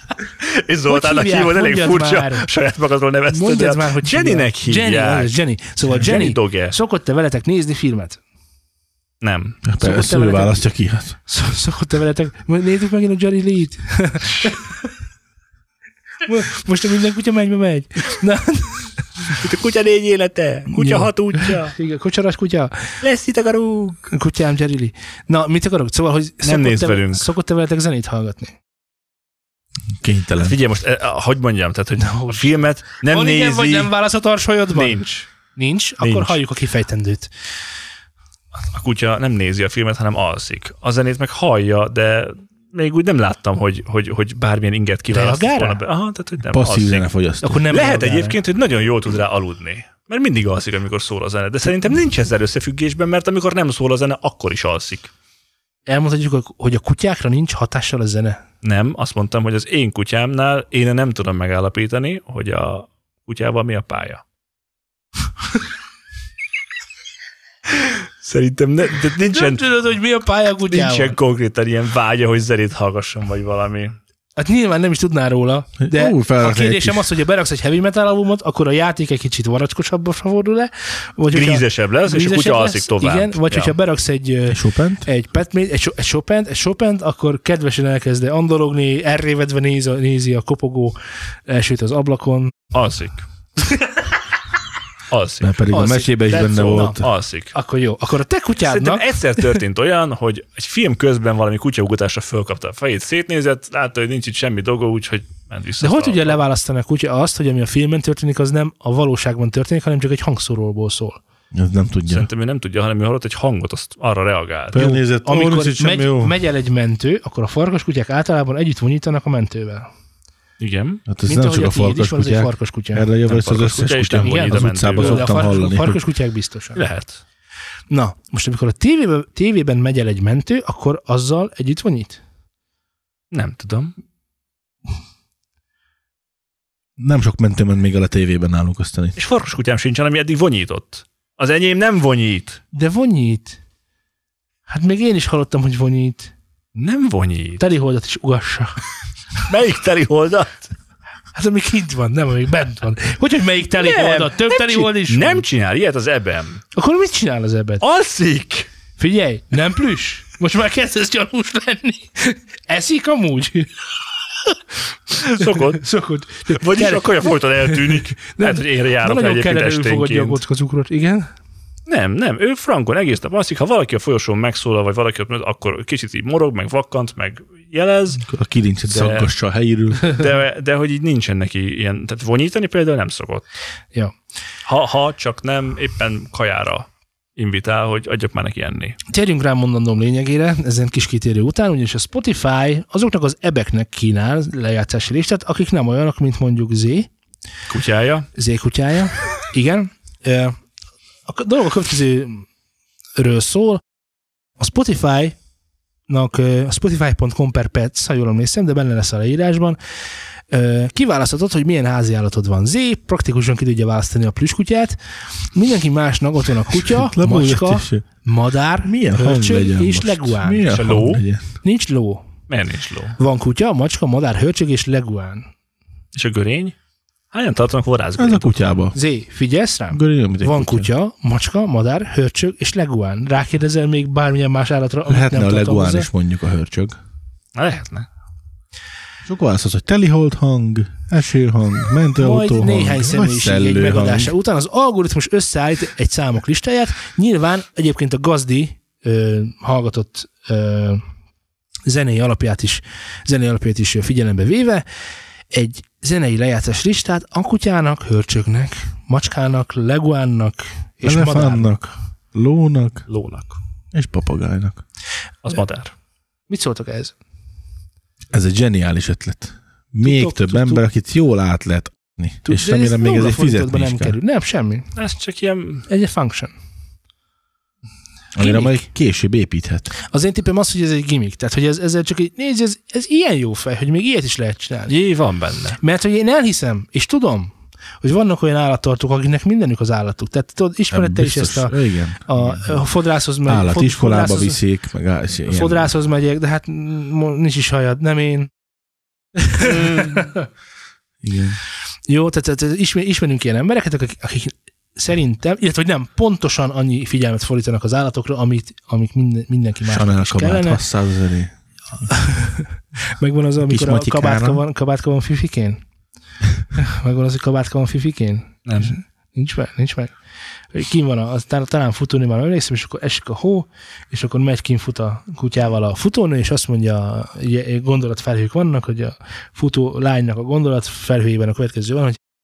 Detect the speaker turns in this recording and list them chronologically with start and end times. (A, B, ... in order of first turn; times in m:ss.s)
0:00.4-0:05.3 A
0:00.9-0:02.4 B
0:03.3-0:08.2 B
0:05.9-0:06.7 A
0:09.2-0:09.6 A
0:09.6-0:11.1 C
0:09.8-0:10.6 B
0:11.3-0:14.6 B
0:16.2-0:19.3 B
0:19.3-0:21.7 A
0:20.7-0:23.0 B
0:23.0-0:24.0 A
0:24.1-0:28.6 B
0:26.4-0:27.3 A
0:30.0-0:30.6 C
0:30.4-0:33.9 A
0:32.0-0:32.4 B
0:33.0-0:35.0 B
0:34.7-0:35.3 A
0:35.6-0:37.3 B
0:36.0-0:36.4 A
0:38.5-0:47.1 A
0:45.1-0:45.8 B
0:46.5-0:47.6 C
0:47.4-0:48.4 B
0:47.7-0:55.1 A
0:55.9-0:58.4 B
0:58.6-1:04.2 A
1:07.8-1:09.7 A
1:09.3-1:11.2 B
1:10.7-1:14.0 A
1:14.4-1:31.0 B
1:15.8-1:17.1 C
1:21.3-1:23.7 A
1:24.5-1:25.0 C
1:31.5-1:32.5 B
1:32.7-1:33.2 A
1:35.1-1:35.6 A
1:35.4-1:37.1 C
1:35.7-1:37.0 B
1:36.3-1:37.5 A
1:37.5-1:39.6 B
1:38.6-1:46.4 A
1:45.8-1:51.2 B
1:51.5-1:52.3 C
1:52.1-1:54.9 A
1:54.7-1:56.3 C
1:54.8-1:59.9 B
2:00.6-2:01.0 A
2:01.1-2:06.0 C
2:01.2-2:03.1 B
2:03.2-2:05.3 A
2:04.2-2:06.8 B
2:06.8-2:07.2 A
2:07.9-2:12.2 B
2:13.3-2:13.9 A
2:17.0-2:19.2 C
2:19.2-2:22.6 A
2:22.7-2:23.6 B
2:24.7-2:26.3 B
2:26.7-2:27.6 A
2:27.6-2:28.7 B
2:29.5-2:30.7 A
2:31.3-2:35.4 B
2:33.8-2:36.6 A
2:36.7-2:37.8 B
2:37.8-2:38.7 A
2:39.0-2:43.7 B
2:45.1-2:51.3 B
2:45.2-2:45.8 A
2:46.5-2:50.4 A
2:51.8-2:58.3 A
2:58.3-3:00.2 C
2:58.9-2:59.3 A
3:00.0-3:03.4 A
3:04.7-3:09.0 A
3:09.1-3:17.1 B
3:17.7-3:18.3 A
3:18.3-3:20.6 B
3:21.2-3:22.5 B
3:23.2-3:23.8 B
3:24.6-3:25.4 B
3:26.1-3:29.8 B
3:30.5-3:35.0 B
3:35.5-3:40.7 B
3:36.8-3:38.0 C
3:38.8-3:41.4 C
3:40.6-3:41.2 A
3:41.6-3:42.2 B
3:42.5-3:43.2 A
3:43.2-3:45.5 B
3:46.1-3:46.7 A
3:47.3-3:48.8 A
3:48.2-3:49.0 C
3:48.9-3:56.1 B
3:49.9-3:50.9 C
3:55.1-3:57.0 C
3:57.5-3:58.1 A
3:59.2-4:04.3 C
4:02.2-4:11.0 B
4:11.9-4:14.8 B
4:15.5-4:21.9 B
4:21.0-4:23.0 C
4:23.1-4:23.6 A
4:23.9-4:24.8 C
4:25.4-4:25.9 A
4:26.5-4:27.1 B
4:28.3-4:34.2 C
4:30.0-4:30.8 B
4:32.4-4:34.9 B
4:35.0-4:35.9 A
4:35.9-4:36.5 B
4:38.3-4:39.9 C
4:38.4-4:38.9 B
4:40.0-4:44.9 B
4:44.9-4:45.8 A
4:45.8-4:54.6 B
4:50.9-4:52.8 C
4:53.4-4:55.9 C
4:55.5-4:58.5 B
4:59.4-5:00.5 B
4:59.6-5:00.3 A
5:01.2-5:01.6 C
5:02.1-5:10.8 B
5:09.9-5:11.5 C
5:12.1-5:15.8 B
5:13.6-5:14.6 C
5:16.8-5:20.1 B
5:18.6-5:18.9 A
5:20.7-5:32.2 B